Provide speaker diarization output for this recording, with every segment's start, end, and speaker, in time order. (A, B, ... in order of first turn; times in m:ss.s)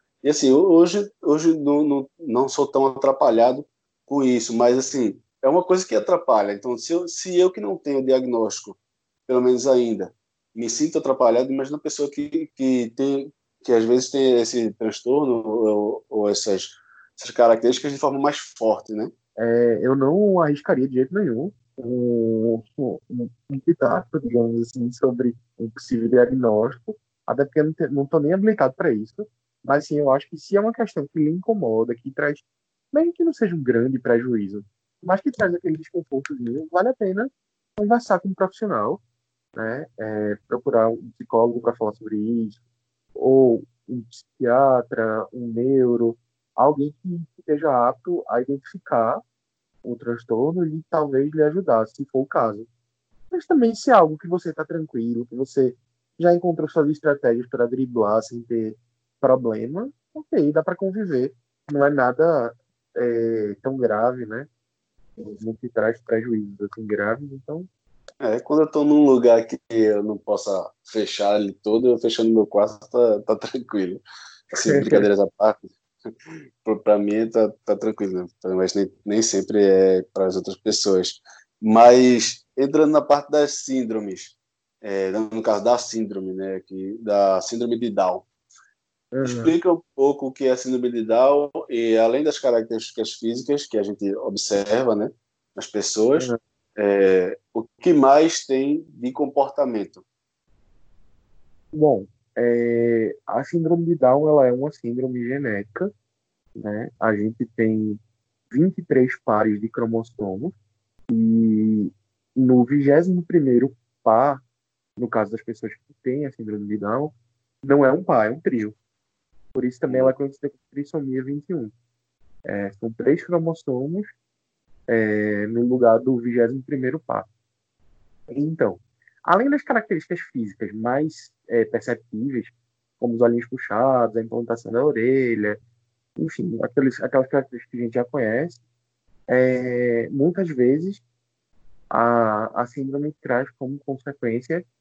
0:00.2-0:19.1 A
0:19.4-0:39.0 B
0:39.6-0:42.6 B
0:43.2-0:49.2 B
0:49.8-0:52.7 B
0:53.3-1:04.5 B
1:05.2-1:07.7 B
1:08.2-1:14.0 A
1:14.5-1:15.1 B
1:14.6-1:28.3 A
1:29.1-1:29.5 B
1:29.2-1:40.0 A
1:41.7-1:45.9 B
1:46.6-1:48.0 B
1:48.5-1:50.6 B
1:51.1-1:54.4 B
1:55.0-1:58.8 B
1:59.5-2:01.7 B
1:59.9-2:00.1 A
2:02.5-2:04.1 B
2:04.9-2:07.3 B
2:08.3-2:15.6 B
2:16.2-2:18.6 B
2:19.3-2:21.0 B
2:21.9-2:24.6 B